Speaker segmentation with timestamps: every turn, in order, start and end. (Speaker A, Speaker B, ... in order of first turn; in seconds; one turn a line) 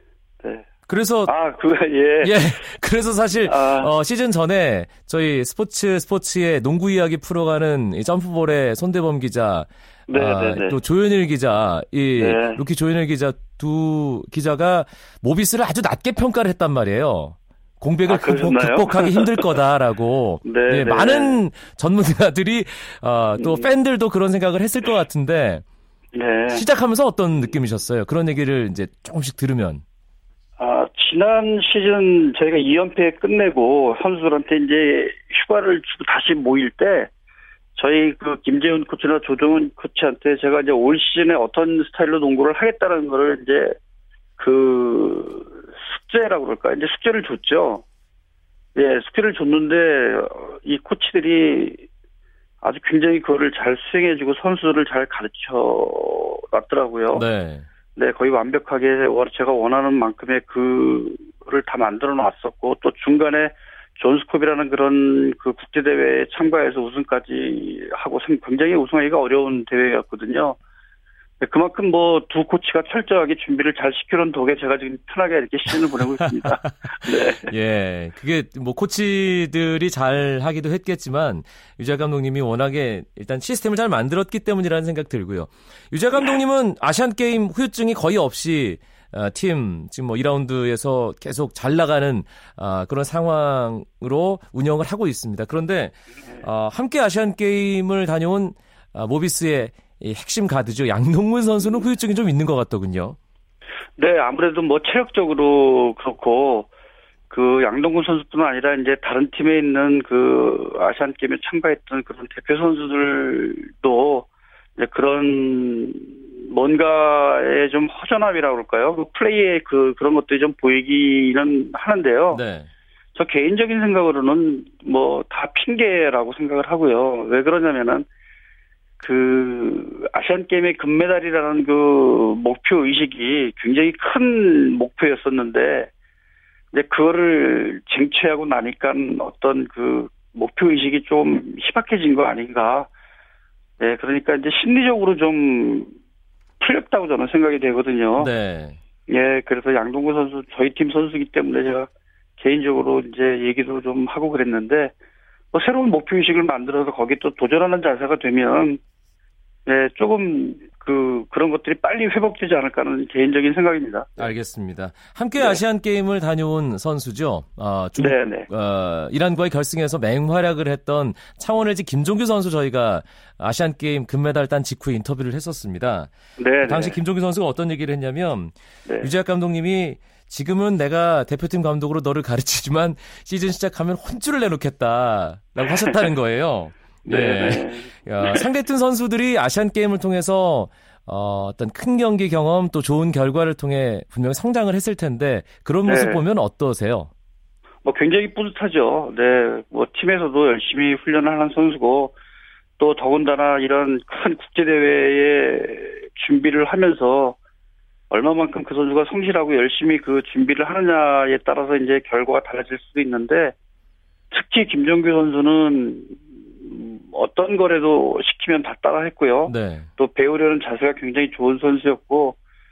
Speaker A: 0.9-1.3
Speaker B: 1.3-2.3
Speaker A: 2.2-25.6
Speaker B: 3.5-3.9
Speaker B: 10.1-10.8
Speaker B: 12.2-12.6
Speaker B: 18.1-19.4
Speaker B: 20.4-21.4
Speaker B: 23.4-23.7
Speaker B: 26.1-26.6
Speaker A: 26.5-29.8
Speaker B: 30.6-37.1
Speaker B: 37.8-43.8
Speaker B: 44.4-47.8
Speaker B: 48.8-51.9
Speaker B: 52.6-57.2
Speaker A: 57.1-57.7
Speaker B: 58.0-70.6
Speaker B: 71.4-77.5
Speaker A: 77.4-103.2
Speaker B: 104.0-106.7
Speaker B: 107.3-122.4
Speaker A: 122.3-122.7
Speaker B: 123.2-128.1
Speaker B: 129.0-135.9
Speaker B: 136.7-142.9
Speaker B: 143.8-145.9
Speaker B: 146.6-148.3
Speaker A: 148.2-148.8
Speaker B: 149.1-154.9
Speaker B: 155.5-158.8
Speaker B: 159.7-164.3
Speaker A: 164.2-176.1
Speaker B: 168.0-168.5
Speaker B: 176.4-177.0
Speaker A: 176.6-197.1
Speaker B: 187.1-188.4
Speaker B: 195.8-196.2
Speaker B: 197.8-202.1
Speaker B: 202.8-207.4
Speaker B: 208.1-213.5
Speaker B: 214.3-222.4
Speaker A: 219.5-219.9